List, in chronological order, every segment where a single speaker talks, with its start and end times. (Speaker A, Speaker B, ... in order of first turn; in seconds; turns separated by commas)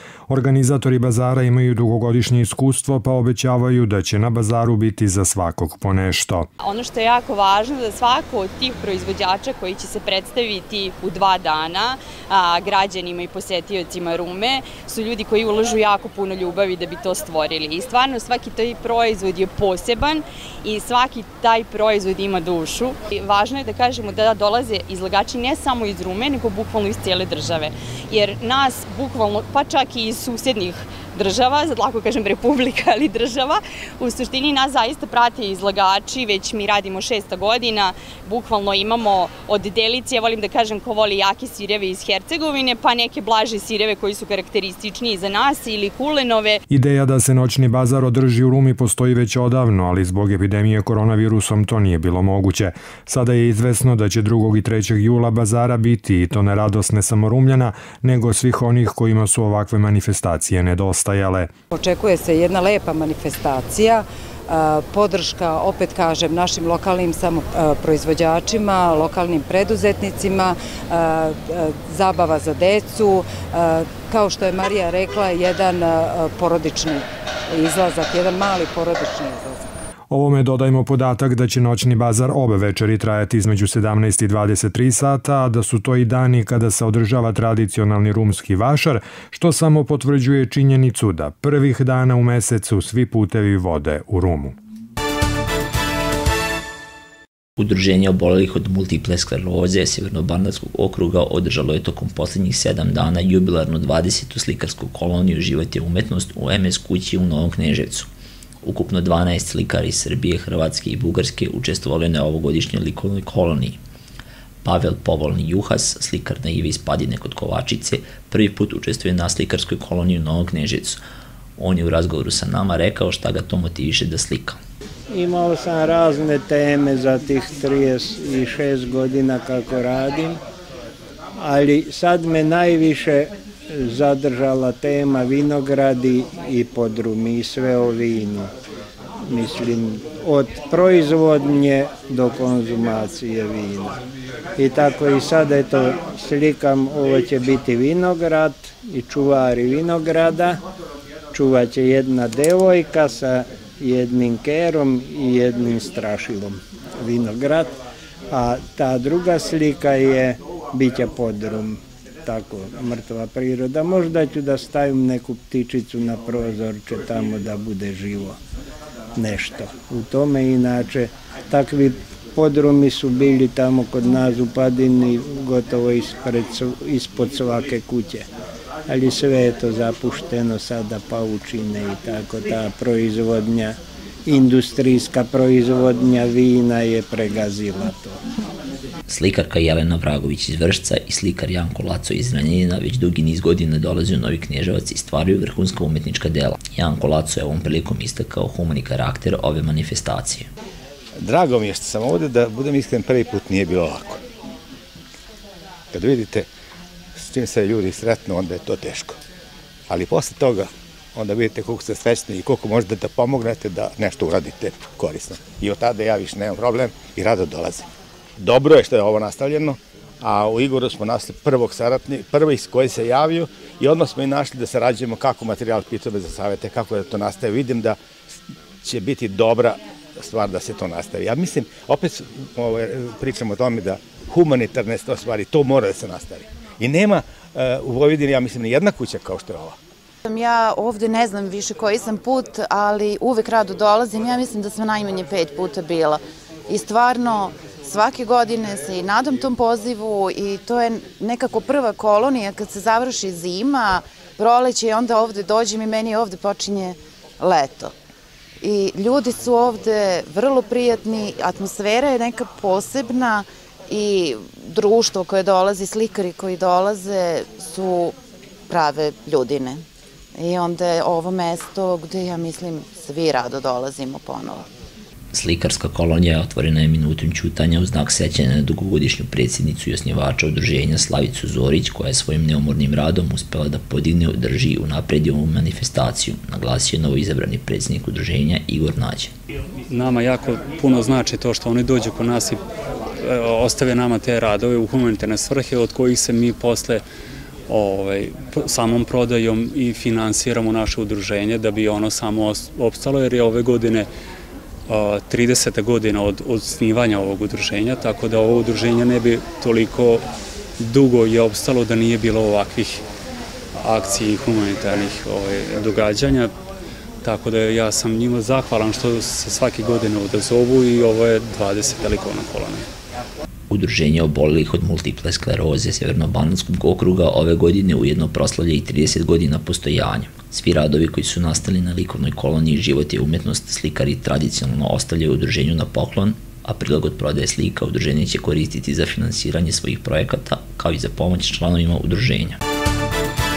Speaker A: 0.3-6.5, Speaker B: 6.7-46.5, Speaker A: 46.7-61.5, Speaker C: 61.7-79.8, Speaker A: 80.1-94.5, Speaker D: 97.6-108.1, Speaker D: 108.6-113.8, Speaker D: 114.6-121.0, Speaker D: 121.6-124.6, Speaker E: 125.1-130.4, Speaker E: 131.4-138.5, Speaker E: 139.3-143.9, Speaker E: 144.6-150.6, Speaker E: 151.3-157.7, Speaker E: 158.3-168.4, Speaker E: 169.2-178.3, Speaker E: 178.9-188.2, Speaker D: 189.1-200.5, Speaker F: 201.2-204.2, Speaker F: 205.9-206.5, Speaker F: 207.2-209.2, Speaker F: 209.9-217.9, Speaker F: 218.4-228.0, Speaker F: 228.8-239.8, Speaker G: 240.2-257.9, Speaker G: 258.6-268.1, Speaker G: 268.7-269.8, Speaker G: 270.4-274.6, Speaker D: 275.3-289.3, Speaker H: 289.9-292.6, Speaker H: 293.2-297.0, Speaker H: 297.7-304.1, Speaker H: 304.9-310.2, Speaker H: 310.8-313.0, Speaker H: 313.8-316.5, Speaker H: 317.2-322.8, Speaker D: 323.7-342.6